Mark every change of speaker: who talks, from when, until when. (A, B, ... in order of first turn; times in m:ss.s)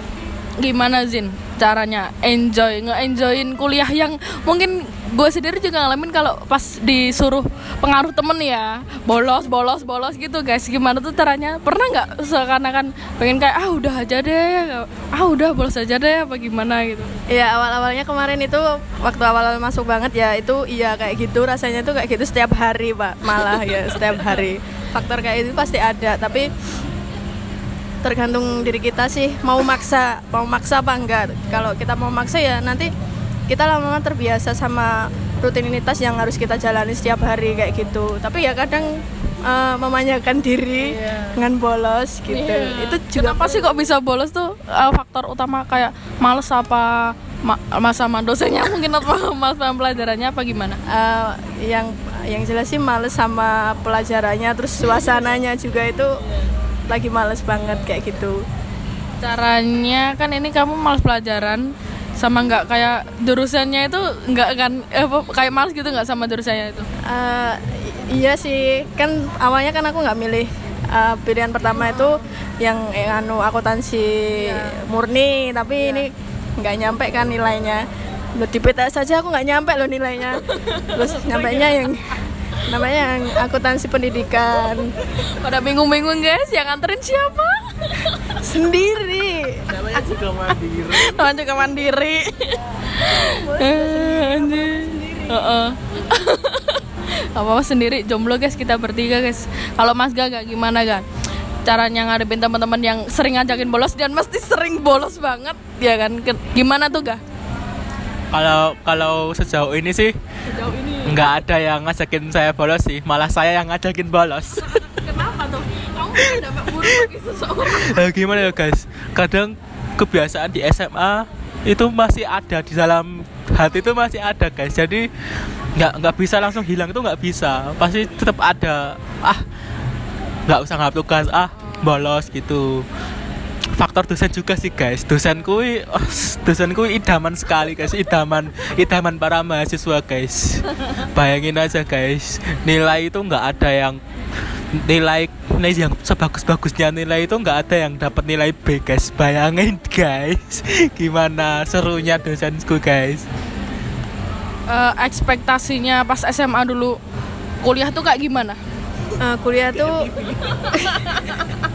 0:00.6-0:17.1 A
0:17.3-0:26.5 B
0:28.0-0:32.9 B
0:33.5-0:43.7 B
0:40.8-0:41.4 A
0:42.3-0:50.8 A
0:50.9-0:56.2 B
0:56.9-0:58.4 B
0:59.2-1:06.9 A
1:07.1-1:24.9 B
1:11.8-1:12.2 A
1:14.3-1:14.8 A
1:20.4-1:21.6 A
1:25.3-1:28.4 A
1:28.4-1:29.6 B
1:29.8-1:31.1 C
1:30.8-1:41.0 A
1:33.1-1:35.5 B
1:41.6-1:47.2 A
1:48.3-1:50.1 C
1:50.5-1:51.3 A
1:51.0-1:54.8 C
1:54.5-1:58.2 A
1:56.2-1:57.0 C
1:57.6-2:05.1 C
2:05.7-2:09.4 C
2:10.5-2:12.8 C
2:13.7-2:24.0 C
2:24.7-2:33.2 C
2:34.7-2:37.0 A
2:37.6-2:38.6 A
2:39.2-2:40.1 B
2:40.4-2:41.5 A
2:40.7-2:41.1 B